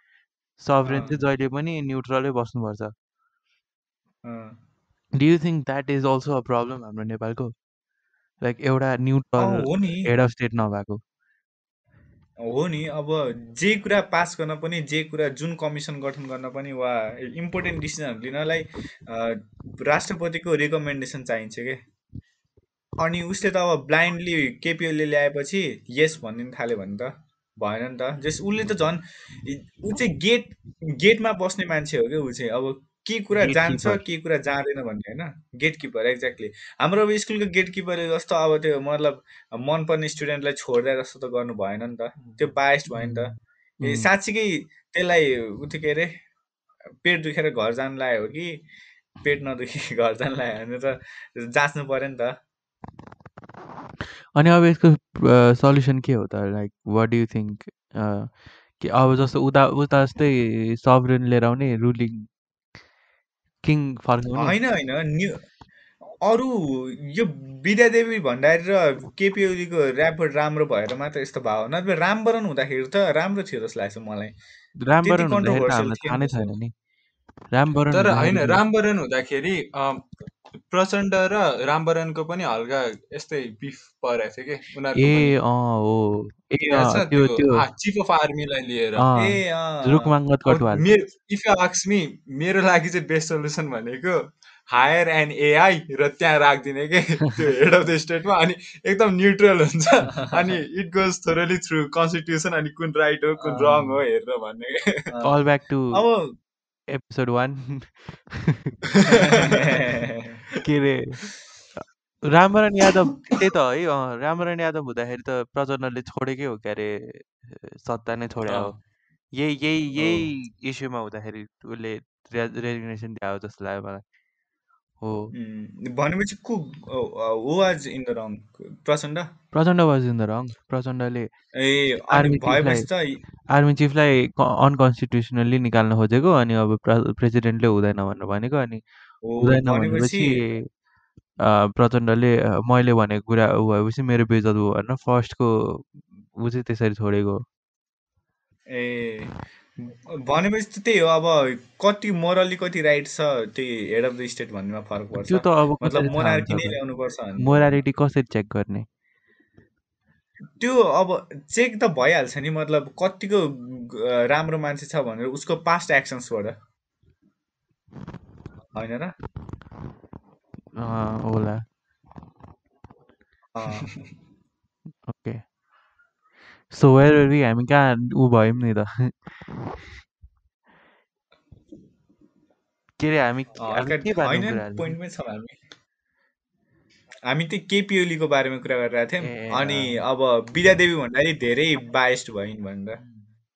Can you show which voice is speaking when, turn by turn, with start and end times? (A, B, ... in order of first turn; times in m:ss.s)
0:00.6-0:02.9 A
0:00.8-0:01.2 B
0:04.2-0:04.6 B
0:05.2-0:07.5 A
0:08.4-0:11.0 A
0:09.4-0:10.1 B
0:12.4-0:21.8 B
0:23.0-0:46.1 B
0:33.3-0:34.0 A
0:42.9-0:43.2 A
0:43.8-0:44.1 A
0:47.0-0:48.6 B
0:49.2-0:52.4 B
0:54.3-1:02.3 A
1:03.6-1:04.6 A
1:04.4-1:05.4 B
1:06.2-1:14.4 B
1:14.8-1:16.7 A
1:15.0-1:16.6 B
1:17.5-1:18.6 A
1:17.9-1:20.1 C
1:20.7-1:25.4 C
1:25.0-1:27.6 A
1:26.6-1:29.1 C
1:29.0-1:30.8 A
1:29.2-1:30.1 B
1:30.5-1:45.1 C
1:40.2-1:40.5 B
1:43.4-1:44.0 B
1:45.1-1:45.3 B
1:45.2-1:46.0 A
1:45.9-1:46.3 B
1:46.9-1:48.8 A
1:49.0-1:49.8 C
1:49.1-1:50.4 B
1:50.6-1:58.7 A
1:58.4-1:58.7 C
1:59.3-2:04.0 A
2:00.0-2:00.3 B
2:05.0-2:05.3 A
2:05.3-2:09.3 B
2:09.5-2:11.3 A
2:11.5-2:13.2 B
2:12.1-2:12.9 A
2:13.5-2:18.8 A
2:19.2-2:20.3 B
2:19.4-2:20.7 A
2:21.4-2:27.4 A
2:28.7-2:37.6 B
2:35.2-2:36.8 A
2:37.4-2:38.8 A
2:40.6-2:46.5 B
2:48.7-2:49.1 B
2:50.8-2:51.6 A
2:53.5-2:53.9 B
2:55.0-2:55.4 A
2:56.7-2:59.3 A
3:03.0-3:05.0 A
3:03.6-3:05.6 B
3:07.2-3:13.0 B
3:09.2-3:10.0 A